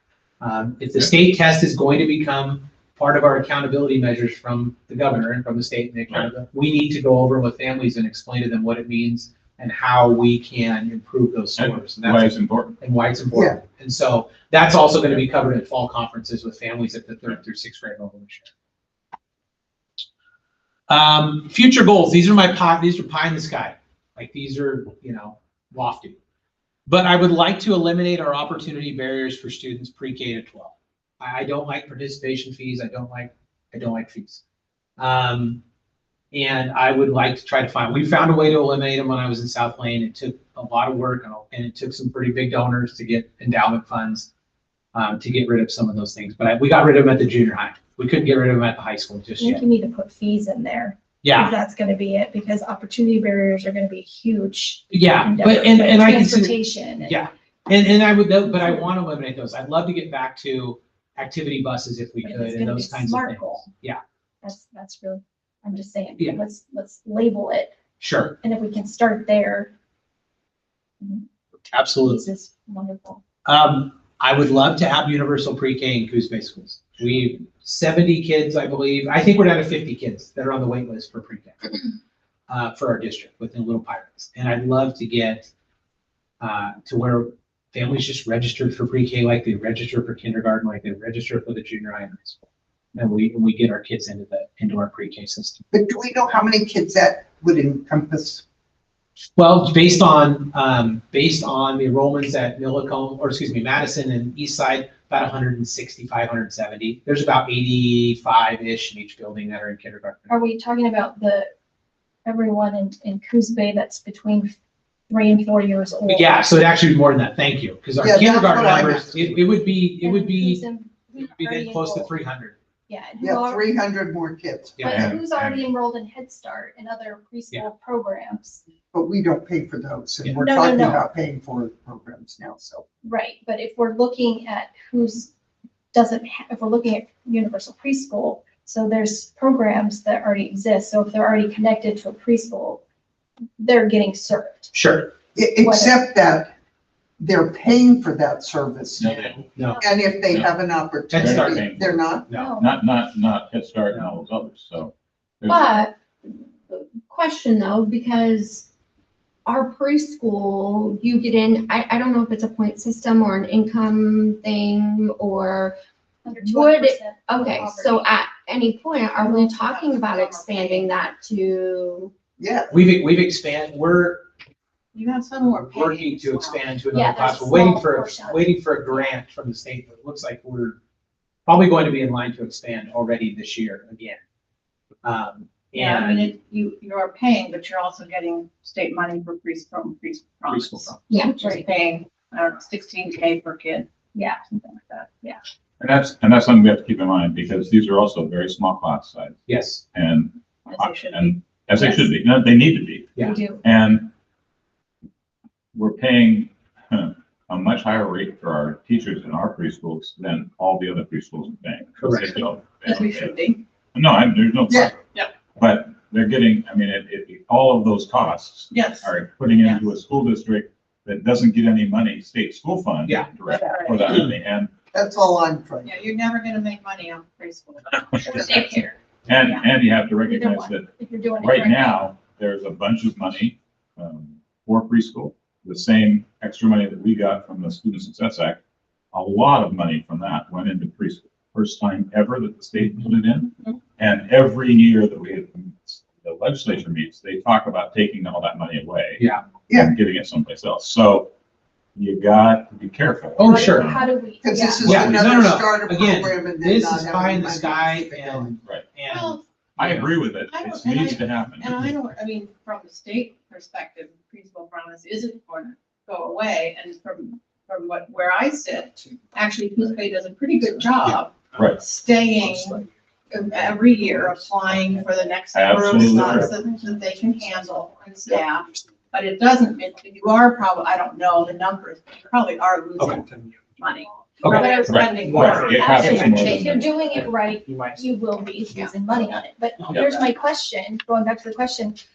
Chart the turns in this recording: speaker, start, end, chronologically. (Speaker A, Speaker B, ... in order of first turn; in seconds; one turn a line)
Speaker A: 0.4-18.5
Speaker B: 11.6-12.8
Speaker C: 13.3-13.6
Speaker A: 20.9-26.2
Speaker A: 26.9-34.4
Speaker A: 35.0-35.6
Speaker A: 36.3-44.3
Speaker A: 44.9-49.6
Speaker D: 49.4-57.2
Speaker A: 51.2-51.5
Speaker A: 54.9-64.0
Speaker D: 58.5-58.9
Speaker D: 62.2-63.7
Speaker D: 64.4-67.7
Speaker A: 68.0-68.4
Speaker D: 68.4-69.7
Speaker A: 71.7-72.3
Speaker D: 72.0-73.2
Speaker A: 73.5-81.8
Speaker A: 82.5-85.5
Speaker A: 86.4-92.4
Speaker A: 93.0-95.6
Speaker C: 95.7-98.4
Speaker A: 99.4-110.4
Speaker D: 110.3-111.5
Speaker D: 112.2-114.6
Speaker D: 115.1-116.4
Speaker A: 116.1-120.6
Speaker C: 118.0-119.4
Speaker D: 120.0-122.1
Speaker A: 121.2-122.6
Speaker D: 122.9-123.7
Speaker C: 123.2-124.8
Speaker A: 124.8-125.1
Speaker D: 124.8-128.6
Speaker B: 124.8-125.7
Speaker C: 128.9-132.8
Speaker D: 130.4-131.0
Speaker D: 133.0-135.3
Speaker D: 135.9-142.8
Speaker D: 143.6-144.7
Speaker A: 144.7-145.1
Speaker C: 145.3-146.5
Speaker D: 145.6-146.0
Speaker C: 147.2-152.2
Speaker B: 149.0-149.5
Speaker A: 149.6-149.9
Speaker B: 150.2-150.6
Speaker A: 151.1-151.7
Speaker B: 151.2-155.8
Speaker A: 152.3-152.6
Speaker D: 152.3-152.7
Speaker E: 155.8-158.7
Speaker E: 159.5-165.8
Speaker D: 166.2-168.2
Speaker E: 166.6-172.1
Speaker F: 169.1-171.1
Speaker C: 172.4-172.7
Speaker A: 172.7-174.3
Speaker F: 174.9-176.7
Speaker A: 175.5-180.8
Speaker D: 176.9-178.6
Speaker A: 181.5-184.2
Speaker A: 185.0-186.3
Speaker F: 185.7-193.9
Speaker A: 190.5-190.9
Speaker D: 191.2-191.7
Speaker D: 194.2-195.4
Speaker B: 195.8-199.4
Speaker A: 199.5-199.8
Speaker B: 199.9-204.1
Speaker F: 200.7-201.6
Speaker D: 201.8-202.1
Speaker D: 203.2-203.6
Speaker B: 205.7-213.4
Speaker A: 212.0-212.3
Speaker F: 212.2-213.6
Speaker B: 213.9-215.0
Speaker B: 215.6-224.7
Speaker F: 218.7-219.9
Speaker F: 223.4-224.3
Speaker C: 224.9-226.0
Speaker F: 225.8-228.8
Speaker D: 228.2-228.9
Speaker B: 229.3-238.6
Speaker F: 229.4-229.7
Speaker D: 230.2-232.0
Speaker B: 239.1-251.3
Speaker A: 249.2-249.4
Speaker B: 251.9-254.1
Speaker A: 253.4-253.9
Speaker D: 253.4-255.0
Speaker C: 254.4-258.6
Speaker A: 254.8-260.1
Speaker B: 254.9-255.4
Speaker F: 259.1-259.4
Speaker B: 259.8-261.8
Speaker F: 260.5-286.2
Speaker B: 271.6-271.8
Speaker A: 272.5-272.7
Speaker B: 275.5-276.6
Speaker A: 284.4-284.7
Speaker D: 284.5-292.0
Speaker B: 284.8-286.9